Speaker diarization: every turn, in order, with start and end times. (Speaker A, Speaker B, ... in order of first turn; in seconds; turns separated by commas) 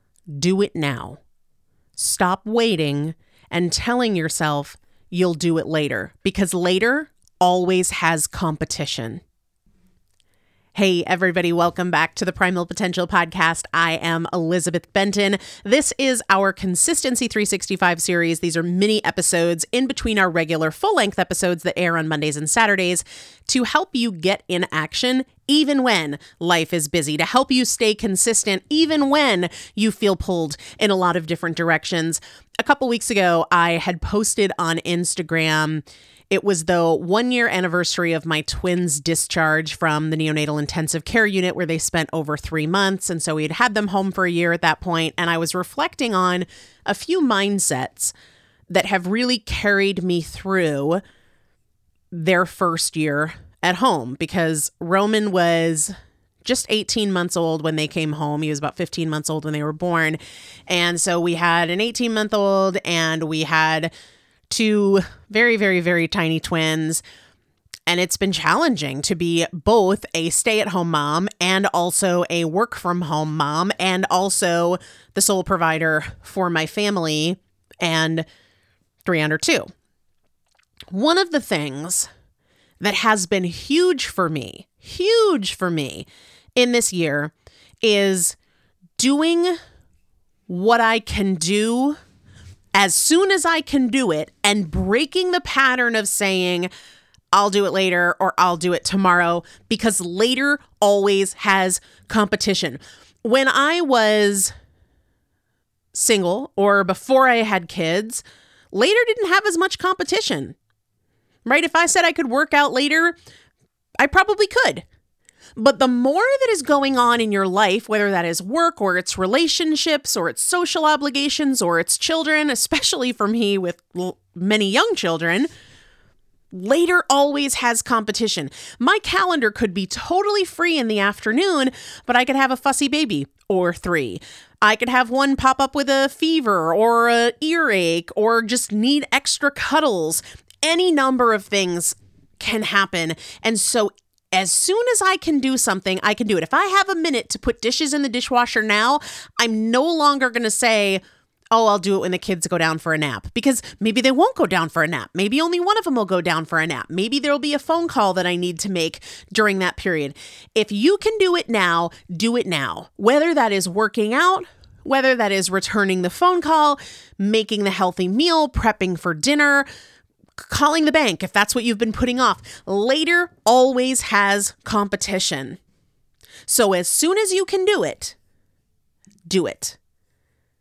Speaker A: 0.3-1.2, Speaker A: 1.9-9.2, Speaker A: 10.7-48.1, Speaker A: 48.7-51.0, Speaker A: 52.1-55.9, Speaker A: 56.4-63.9, Speaker A: 64.5-67.0, Speaker A: 67.9-78.2, Speaker A: 79.0-79.7, Speaker A: 80.9-82.1, Speaker A: 82.8-87.3, Speaker A: 87.8-88.3, Speaker A: 89.0-89.6, Speaker A: 90.5-92.0, Speaker A: 92.7-96.7, Speaker A: 97.3-104.5, Speaker A: 105.9-110.5, Speaker A: 111.4-113.2, Speaker A: 114.0-114.8, Speaker A: 115.5-125.5, Speaker A: 126.5-151.0, Speaker A: 151.5-169.7, Speaker A: 170.4-175.6, Speaker A: 176.5-178.2, Speaker A: 179.2-179.8